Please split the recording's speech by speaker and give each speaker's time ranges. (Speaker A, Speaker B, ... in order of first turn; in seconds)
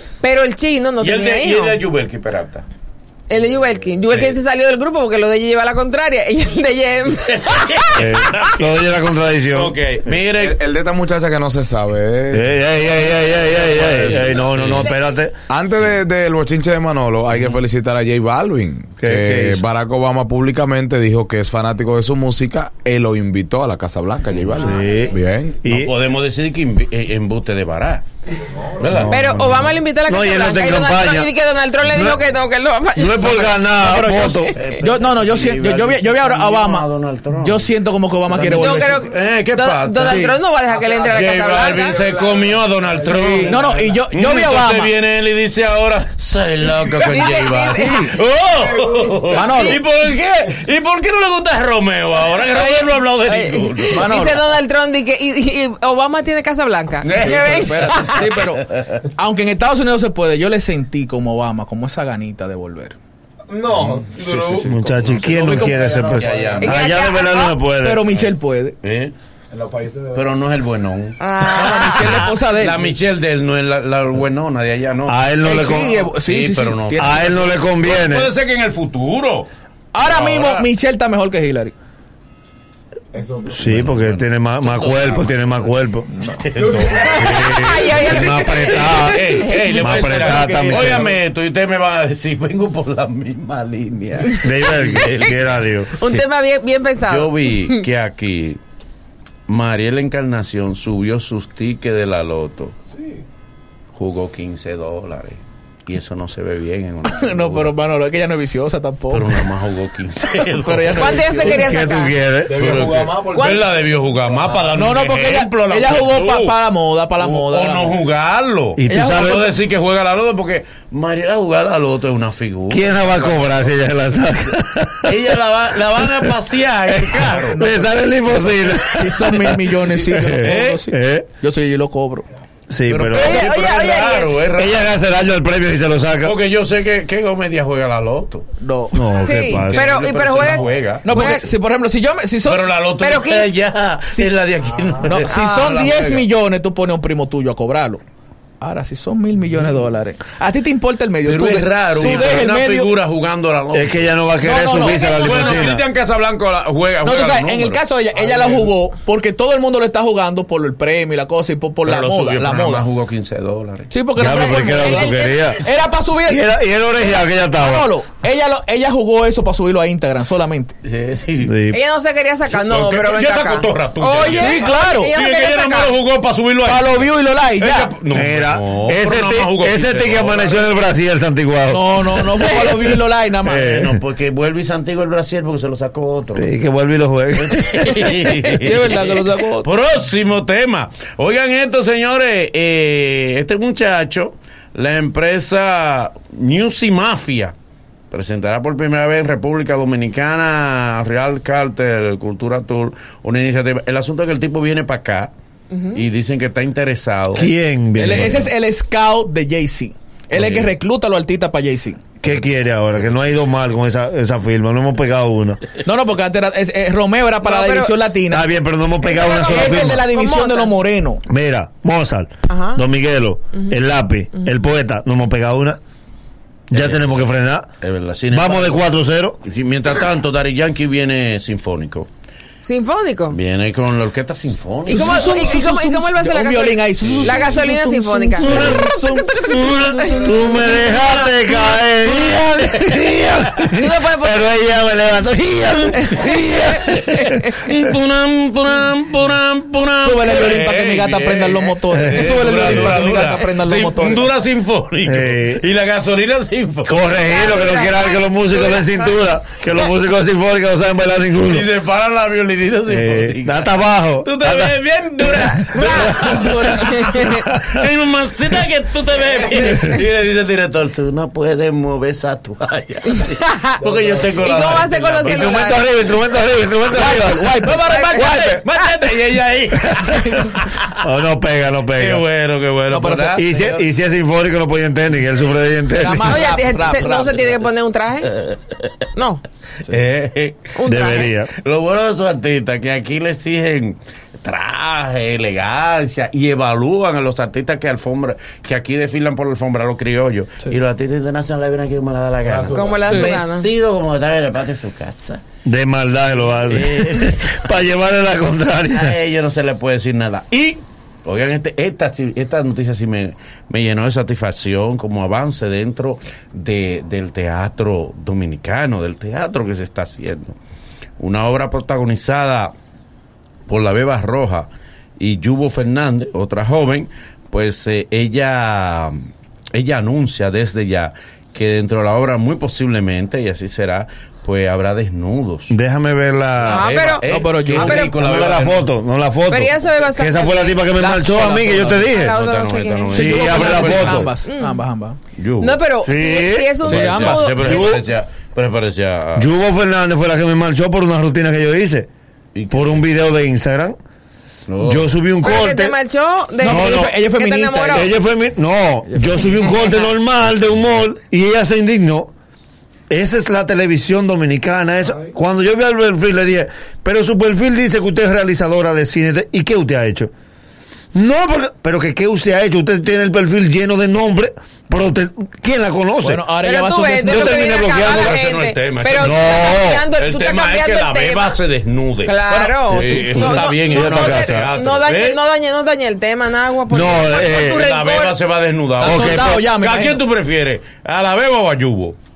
Speaker A: 0.2-1.8, 3.3-8.1, 29.1-33.6, 38.5-42.2, 47.1-48.0, 52.5-58.4, 66.6-67.6, 71.2-72.2, 87.0-89.5, 96.0-97.8, 111.0-112.2, 113.3-113.7, 133.1-134.4, 139.2-141.4, 143.0-143.5, 145.3-145.8, 155.2-155.5, 164.3-165.5, 171.7-175.9, 217.4-217.9, 219.0-220.8, 222.5-222.8, 232.6-233.4, 234.9-238.9, 239.4-240.3, 243.7-244.4, 257.2-259.2, 265.2-267.5, 273.2-275.8, 277.8-278.9, 286.2-288.3, 289.2-289.4, 290.8-291.3, 302.7-303.7, 336.7-338.1, 339.5-340.8, 342.0-343.8, 344.4-344.8, 345.6-348.0, 355.4-358.1, 359.7-360.0, 376.6-381.6, 382.2-388.3
Speaker B: 1.0-2.6, 4.1-4.4, 7.3-8.7, 9.5-10.6, 13.4-14.9, 25.6-28.0, 28.8-29.3, 34.5-37.7, 38.3-40.4, 40.9-54.3, 57.0-59.0, 63.7-65.2, 66.1-66.9, 68.8-69.1, 70.1-75.2, 76.0-79.5, 80.0-80.7, 83.5-85.3, 86.4-95.5, 97.0-98.6, 99.5-102.8, 103.9-107.7, 109.1-111.4, 112.5-116.6, 117.2-123.5, 125.0-127.7, 130.4-130.8, 132.9-134.9, 136.2-138.5, 139.4-141.4, 142.4-146.2, 151.2-154.1, 154.8-158.6, 161.8-163.9, 170.8-171.6, 172.5-180.7, 183.5-186.5, 187.4-197.5, 198.1-205.3, 205.9-207.5, 208.0-208.4, 210.3-210.7, 226.7-227.1, 227.8-228.9, 229.4-232.1, 233.3-235.4, 237.0-237.6, 238.4-240.3, 246.4-257.2, 261.4-275.8, 277.6-281.0, 282.0-283.8, 288.3-288.9, 289.9-290.7, 291.5-305.4, 306.7-307.7, 308.9-320.6, 321.2-322.7, 323.7-329.2, 329.7-335.8, 336.6-338.9, 341.5-344.3, 345.4-345.8, 346.8-349.5, 352.5-353.0, 354.7-355.1, 377.8-379.5, 380.1-385.4, 387.1-392.2
Speaker C: 8.0-9.8, 12.3-15.4, 19.0-19.6, 24.6-25.9, 28.8-32.2, 32.9-34.5, 64.5-68.1, 75.1-76.0, 77.0-78.3, 83.5-91.1, 94.4-96.0, 111.4-112.9, 118.8-119.5, 122.7-125.4, 126.0-126.3, 126.9-131.3, 132.7-133.5, 134.5-136.4, 138.9-139.9, 153.7-155.8, 164.2-165.6, 166.2-167.9, 171.4-171.8, 178.1-182.6, 183.4-184.0, 186.4-188.4, 207.3-208.4, 212.2-215.6, 218.3-220.1, 221.3-225.8, 226.7-227.7, 228.3-229.4, 238.5-238.8, 240.2-247.6, 251.9-253.0, 255.0-255.6, 256.9-261.7, 262.9-267.8, 275.2-277.7, 281.0-282.2, 283.3-286.6, 290.9-291.5, 305.6-309.2, 335.7-336.9, 338.1-342.4, 343.1-344.3, 346.0-347.0, 347.6-348.0, 349.4-352.1, 352.7-354.0, 354.8-356.0, 356.6-357.1, 357.9-362.3, 363.1-370.3, 371.1-376.5, 377.2-378.4, 379.2-380.1, 383.8-384.7, 386.9-387.9, 389.0-389.6
Speaker D: 10.2-12.5, 13.8-14.4, 15.5-25.6, 63.5-66.7, 69.5-70.2, 112.5-113.4
Speaker E: 33.8-36.9, 37.4-39.0, 40.0-40.4, 43.0-44.9, 47.2-48.1, 49.3-49.8, 53.9-54.4, 57.1-63.0, 65.3-66.0, 67.8-68.8, 71.4-72.8, 75.4-77.4, 79.9-81.8, 86.1-86.4, 89.5-91.2, 107.1-109.5, 110.4-111.7, 114.7-118.0, 118.9-119.5, 127.6-127.9, 128.9-132.2, 138.6-139.1, 141.0-142.7, 145.0-148.0, 148.6-152.9, 154.4-155.2, 157.0-162.9, 163.9-166.5, 167.5-170.8, 174.2-175.1, 176.6-177.9, 181.7-183.7, 188.5-189.7, 208.0-212.0, 215.8-218.5, 219.0-221.2, 234.9-239.8, 250.0-254.3, 276.9-278.6, 282.9-283.4, 285.9-287.6, 337.3-338.1, 341.0-342.0, 343.1-345.2, 346.8-347.6, 356.6-358.1, 359.1-359.7, 376.2-377.8, 382.5-383.6, 389.0-390.2